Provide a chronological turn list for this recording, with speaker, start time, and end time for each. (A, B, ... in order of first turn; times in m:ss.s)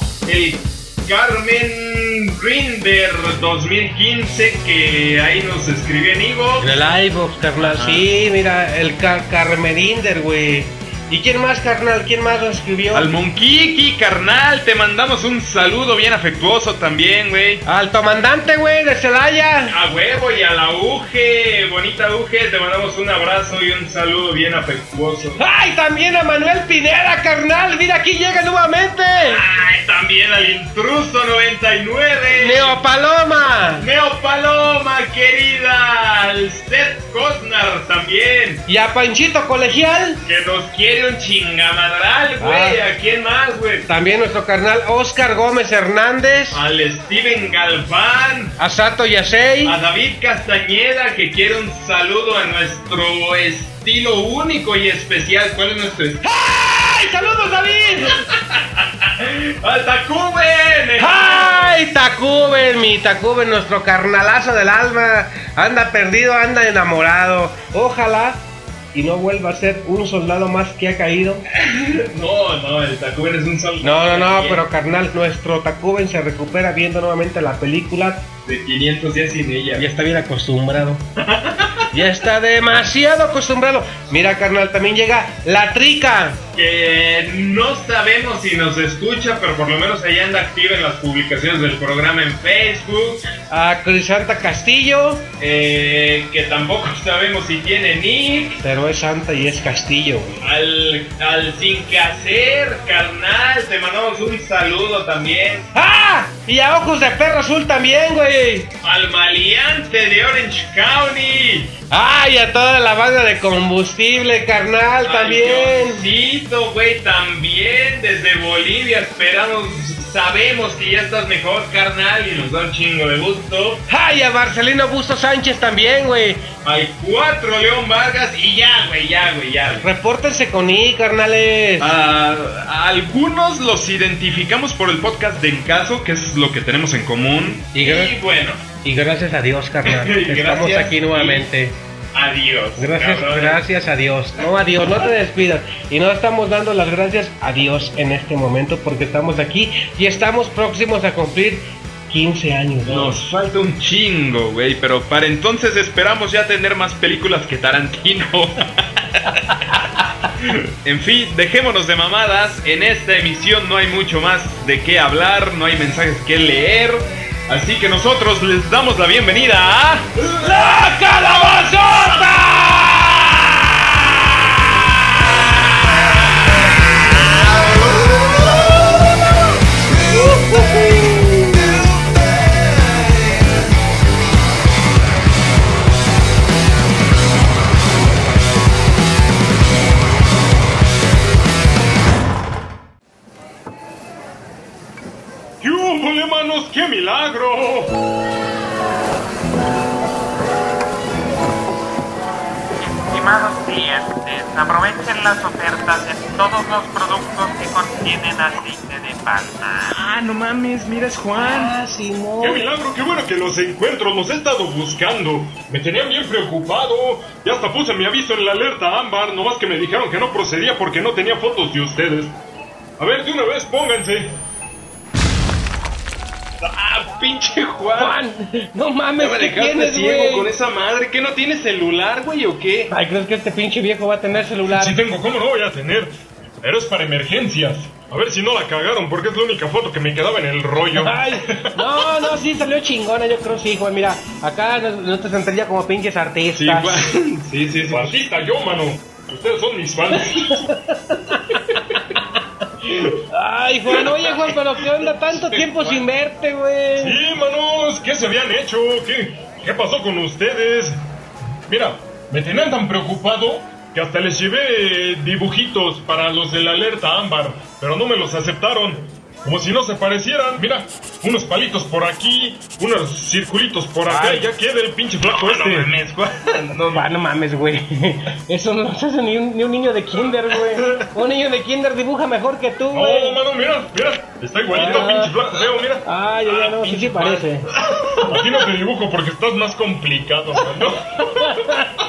0:00.3-0:06.8 A
0:06.6-0:13.1 B
0:07.6-0:08.1 A
0:12.9-0:17.6 A
0:17.6-0:19.8 B
0:19.7-0:25.4 A
0:25.4-0:29.4 B
0:29.3-0:32.8 A
0:32.3-0:33.9 B
0:33.8-0:38.6 A
0:38.7-0:40.2 B
0:40.2-0:43.9 A
0:42.4-0:42.8 B
0:43.9-0:46.6 B
0:46.5-0:48.6 A
0:48.6-0:49.8 B
0:49.6-0:56.2 A
0:56.2-0:58.2 B
0:57.2-0:57.8 A
0:58.5-1:01.8 A
1:01.0-1:11.4 B
1:11.6-1:14.7 A
1:13.8-1:18.3 B
1:18.4-1:19.8 A
1:19.8-1:21.0 B
1:21.3-1:21.8 A
1:21.9-1:26.4 B
1:26.5-1:33.2 A
1:33.5-1:35.3 B
1:35.4-1:38.6 A
1:38.6-1:40.4 B
1:40.4-1:45.7 A
1:45.7-1:48.7 B
1:48.8-1:51.8 A
1:51.9-1:56.0 B
1:55.0-2:03.8 A
2:03.9-2:06.5 B
2:06.6-2:09.8 A
2:09.8-2:11.9 B
2:11.8-2:18.6 A
2:17.8-2:18.2 B
2:18.7-2:21.8 B
2:19.8-2:21.5 A
2:22.1-2:23.6 A
2:22.8-2:33.2 B
2:32.8-2:39.4 A
2:40.8-2:50.3 A
2:50.4-2:53.2 B
2:57.1-2:59.0 A
3:00.4-3:01.9 A
3:02.6-3:03.4 A
3:15.6-3:18.0 C
3:22.8-3:30.0 D
3:29.9-3:31.8 A
3:31.4-3:32.7 B
3:32.4-3:42.4 C
3:43.0-3:44.4 C
3:46.6-3:48.2 A
3:48.0-3:50.5 B
3:49.2-3:52.9 A
3:52.9-3:55.0 B
3:54.7-4:01.8 C
4:01.0-4:07.0 B
4:06.6-4:08.2 A
4:07.9-4:10.7 C
4:10.3-4:12.2 B
4:13.3-4:17.2 B
4:14.4-4:16.1 A
4:17.0-4:21.0 C
4:21.7-4:35.9 C
4:34.1-4:34.4 B
4:35.3-4:37.1 A
4:36.9-4:43.4 B
4:42.9-4:46.0 C
4:44.7-4:45.4 B
4:44.8-4:45.1 A
4:46.0-4:47.7 B
4:46.4-4:48.4 A
4:48.2-4:51.8 C
4:51.2-4:51.9 B